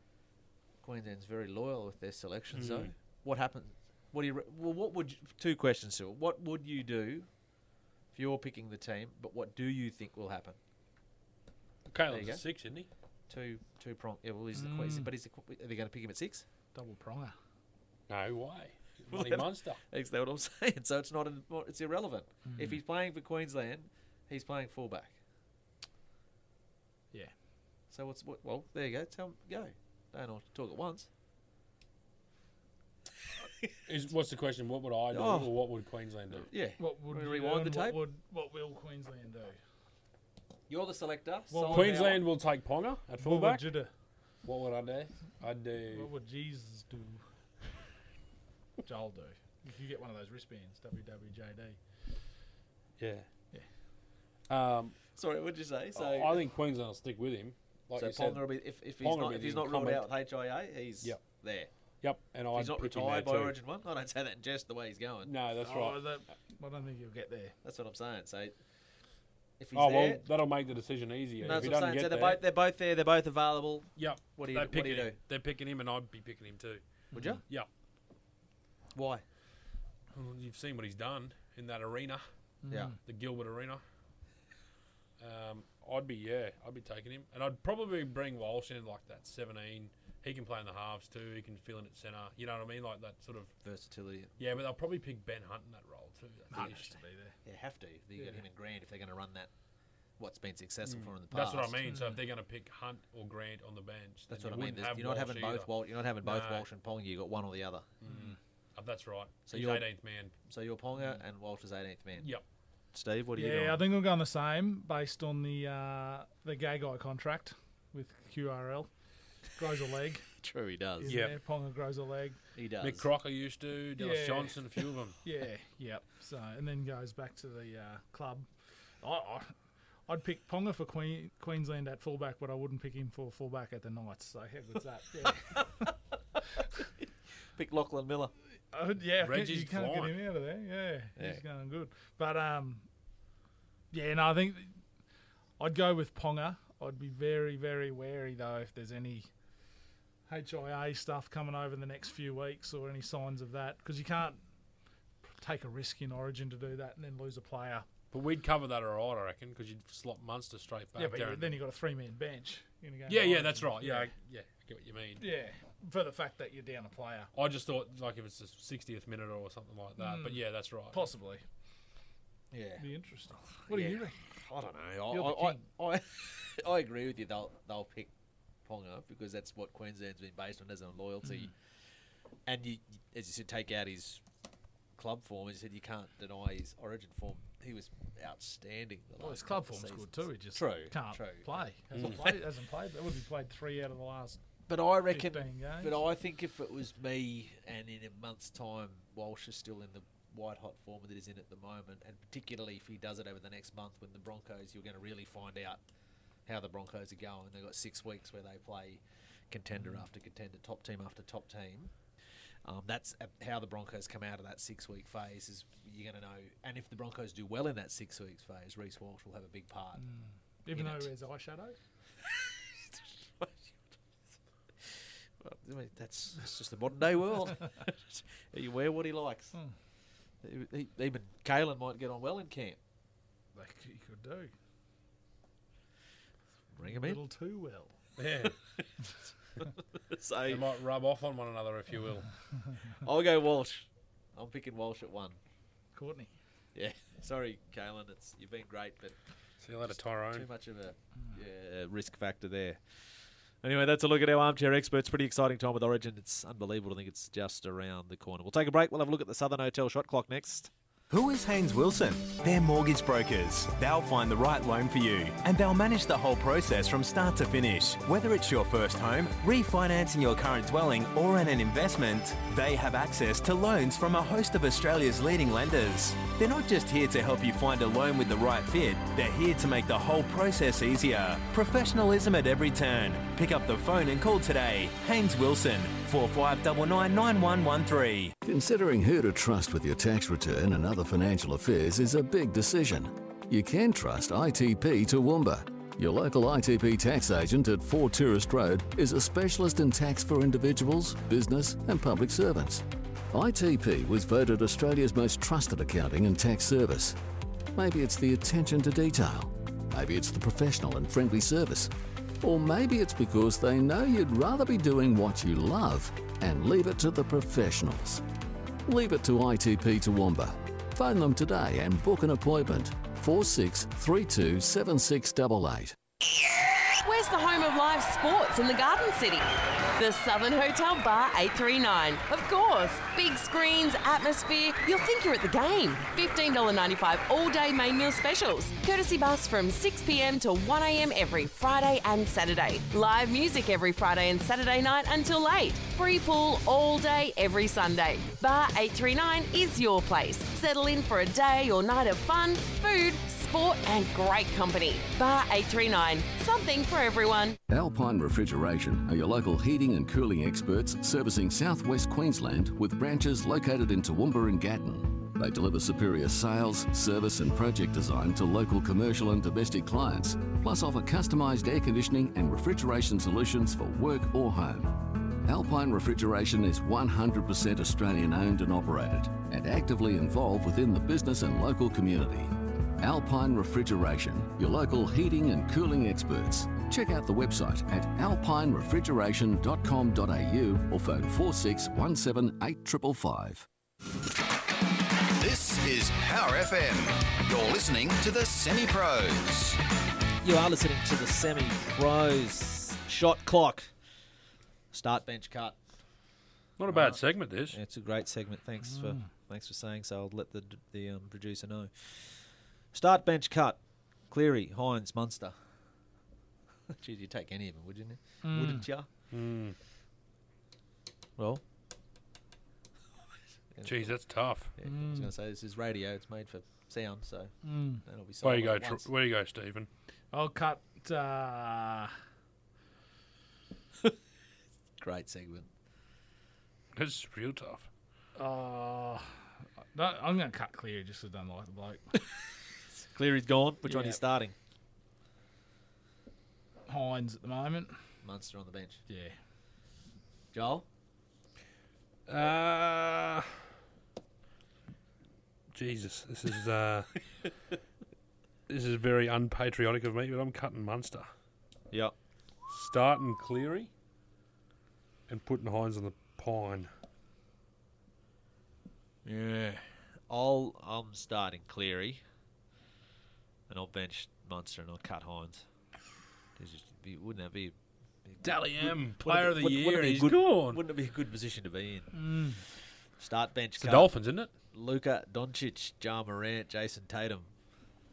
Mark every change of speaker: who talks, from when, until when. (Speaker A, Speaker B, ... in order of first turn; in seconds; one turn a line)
Speaker A: 0.8-7.3
Speaker B: 2.5-2.9
Speaker A: 8.1-10.6
Speaker B: 11.9-12.9
Speaker A: 12.1-12.4
Speaker A: 13.3-16.4
Speaker C: 14.5-15.1
Speaker C: 16.7-17.4
Speaker B: 18.1-19.8
Speaker A: 19.1-25.2
Speaker C: 22.4-22.8
Speaker A: 27.9-31.1
Speaker B: 33.9-36.5
Speaker A: 35.1-35.5
Speaker A: 36.5-38.0
Speaker C: 36.8-39.6
Speaker A: 40.7-42.2
Speaker C: 41.5-42.2
Speaker B: 41.7-43.7
Speaker C: 43.2-43.9
Speaker B: 44.4-46.1
Speaker C: 45.9-47.2
Speaker C: 48.8-51.8
Speaker B: 53.0-53.2
Speaker B: 54.5-55.0
Speaker A: 55.1-56.4
Speaker B: 56.0-58.5
Speaker A: 58.0-61.7
Speaker B: 59.0-60.1
Speaker B: 62.0-63.6
Speaker A: 62.5-65.3
Speaker B: 65.2-66.0
Speaker C: 65.6-67.5
Speaker A: 67.6-68.5
Speaker A: 69.6-70.2
Speaker B: 69.7-72.4
Speaker A: 71.4-75.2
Speaker B: 74.0-76.8
Speaker A: 77.1-77.4
Speaker A: 78.9-79.2
Speaker B: 80.1-82.2
Speaker C: 82.6-83.0
Speaker B: 83.0-83.8
Speaker B: 85.2-93.5
Speaker A: 93.6-94.3
Speaker B: 94.4-97.0
Speaker C: 96.5-97.4
Speaker A: 97.4-99.5
Speaker C: 98.2-98.4
Speaker A: 100.2-101.8
Speaker B: 100.8-105.7
Speaker C: 101.8-102.2
Speaker A: 104.3-107.9
Speaker B: 106.2-106.6
Speaker B: 108.0-110.3
Speaker C: 108.0-108.4
Speaker A: 109.5-109.8
Speaker A: 110.5-112.3
Speaker A: 112.9-113.8
Speaker C: 113.4-118.9
Speaker C: 119.5-120.2
Speaker A: 120.4-121.2
Speaker C: 121.0-122.4
Speaker B: 121.1-121.3
Speaker A: 122.5-123.0
Speaker B: 122.8-125.2
Speaker C: 124.0-124.6
Speaker C: 125.2-128.5
Speaker C: 129.0-129.5
Speaker C: 130.1-135.9
Speaker A: 137.5-138.3
Speaker C: 138.7-142.8
Speaker B: 139.2-140.1
Speaker A: 141.2-141.4
Speaker C: 143.9-144.7
Speaker C: 145.6-149.3
Speaker C: 150.3-154.4
Speaker C: 155.2-157.9
Speaker B: 158.1-161.6
Speaker C: 160.9-164.1
Speaker B: 163.1-165.3
Speaker C: 165.2-167.3
Speaker B: 167.3-171.1
Speaker C: 170.0-171.4
Speaker A: 172.5-172.8
Speaker C: 172.8-174.2
Speaker A: 173.7-178.1
Speaker C: 175.1-175.6
Speaker A: 178.6-181.5
Speaker C: 181.2-181.5
Speaker A: 182.5-184.2
Speaker A: 185.0-191.6
Speaker C: 189.2-194.4
Speaker B: 191.9-192.3
Speaker A: 194.7-205.8
Speaker C: 195.1-196.0
Speaker A: 206.5-211.9
Speaker A: 212.6-220.0
Speaker C: 220.0-221.8
Speaker A: 220.7-221.1
Speaker A: 222.4-223.8
Speaker A: 224.8-229.6
Speaker A: 230.4-232.8
Speaker C: 233.5-234.5
Speaker A: 236.7-237.2
Speaker C: 236.8-237.9
Speaker B: 238.2-238.6
Speaker A: 240.1-240.6
Speaker B: 240.5-242.3
Speaker A: 243.0-245.4
Speaker C: 245.9-246.3
Speaker A: 246.7-249.2
Speaker B: 249.6-250.5
Speaker A: 250.3-252.8
Speaker A: 253.6-260.7
Speaker D: 261.1-288.3
Speaker E: 288.4-307.2
Speaker E: 307.7-318.2
Speaker E: 318.8-326.0
Speaker F: 326.9-329.4
Speaker F: 330.0-357.6
Speaker E: 357.7-393.7
Speaker G: 395.4-399.8
Speaker A: 400.4-403.9
Speaker A: 404.9-405.8
Speaker B: 406.8-407.8
Speaker A: 406.9-412.2
Speaker C: 408.8-409.3
Speaker A: 412.9-413.8
Speaker A: 414.3-415.6
Speaker A: 416.9-419.1
Speaker C: 418.4-418.9
Speaker B: 419.3-419.8
Speaker A: 423.7-424.2
Speaker B: 423.8-424.7
Speaker A: 424.8-427.5
Speaker C: 424.8-425.3
Speaker C: 427.6-428.0
Speaker A: 428.0-429.1
Speaker B: 428.4-429.9
Speaker C: 430.3-432.1
Speaker A: 435.0-435.7
Speaker B: 436.9-437.9
Speaker C: 438.4-439.3
Speaker C: 439.9-442.1
Speaker A: 443.1-444.5
Speaker C: 443.9-444.2
Speaker C: 446.9-447.9
Speaker A: 448.2-449.0
Speaker C: 449.1-449.4
Speaker A: 450.5-450.8
Speaker B: 452.3-453.6
Speaker B: 455.7-457.2
Speaker B: 458.7-461.3
Speaker B: 462.7-463.9
Speaker B: 465.3-466.9
Speaker A: 469.2-472.2
Speaker A: 473.7-475.6
Speaker A: 476.6-482.2
Speaker B: 478.4-480.8
Speaker C: 482.1-482.6
Speaker A: 483.2-484.1
Speaker B: 483.8-484.5
Speaker A: 484.7-487.5